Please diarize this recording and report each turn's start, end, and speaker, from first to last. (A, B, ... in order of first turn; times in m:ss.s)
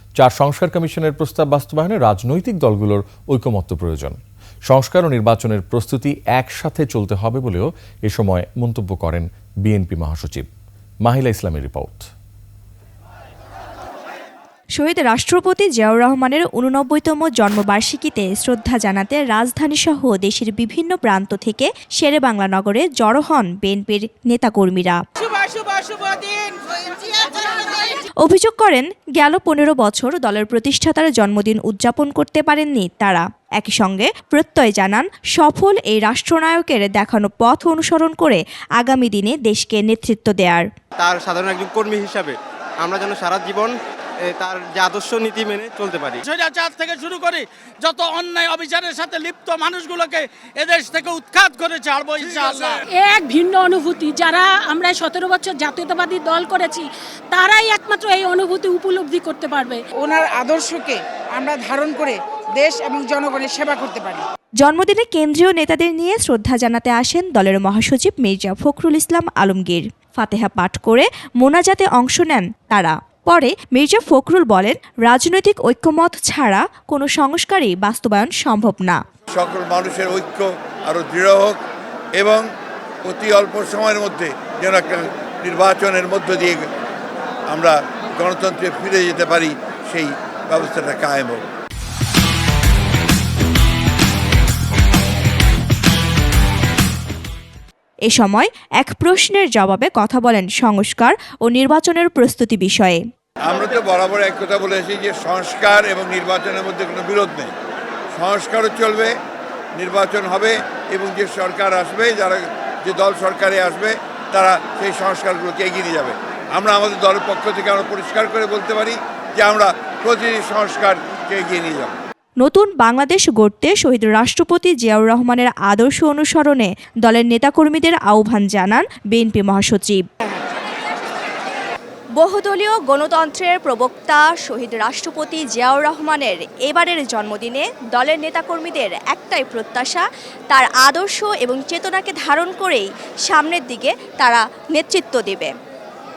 0:00.2-0:10.5 A
0:11.0-0:12.1 A
0:14.8-0:25.0 B
0:25.2-0:27.9 C
0:28.2-0:40.7 B
0:41.0-0:43.8 D
0:44.3-0:46.2 D
0:46.2-0:52.8 E
0:52.9-0:59.8 F
1:00.0-1:04.2 C
1:04.6-1:19.0 B
1:19.4-1:21.6 G
1:22.2-1:22.4 G
1:23.0-1:26.6 G
1:27.5-1:31.4 G
1:38.1-1:43.0 B
1:43.4-1:47.5 G
1:48.2-1:49.2 G
1:49.8-2:02.0 G
2:02.4-2:10.0 B
2:12.2-2:25.5 B